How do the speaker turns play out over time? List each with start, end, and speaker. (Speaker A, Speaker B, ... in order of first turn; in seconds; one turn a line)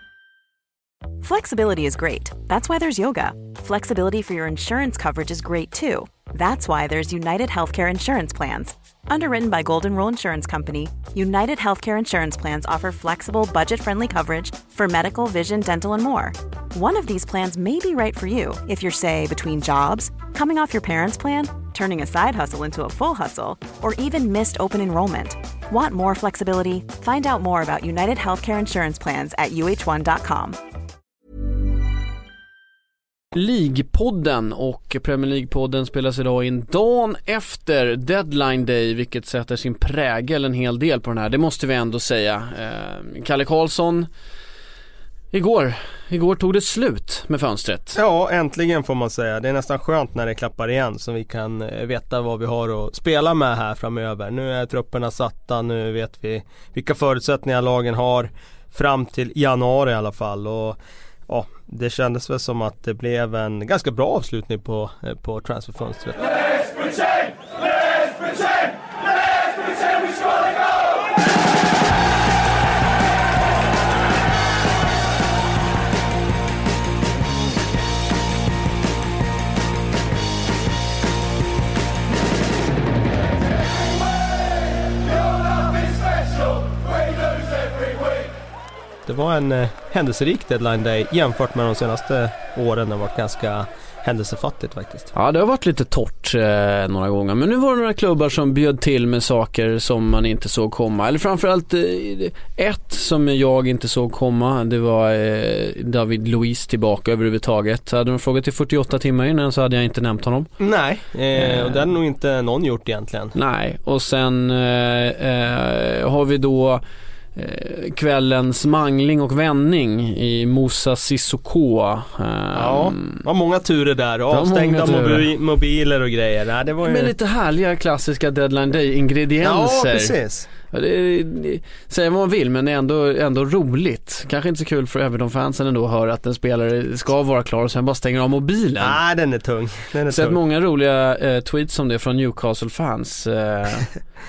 Speaker A: 1.2-30.6
Speaker B: 33.3-44.1
Speaker B: 45.3-48.0
Speaker C: 48.0-66.9
Speaker C: 89.0-95.1
Speaker B: 95.1-110.5
Speaker C: 110.6-113.3
Speaker B: 111.3-111.8
Speaker B: 113.3-116.8
Speaker B: 117.3-123.2
Speaker C: 122.5-127.1
Speaker B: 124.3-125.2
Speaker B: 126.8-130.2
Speaker C: 129.4-130.5
Speaker B: 130.7-139.0
Speaker C: 138.8-140.4
Speaker B: 140.1-143.9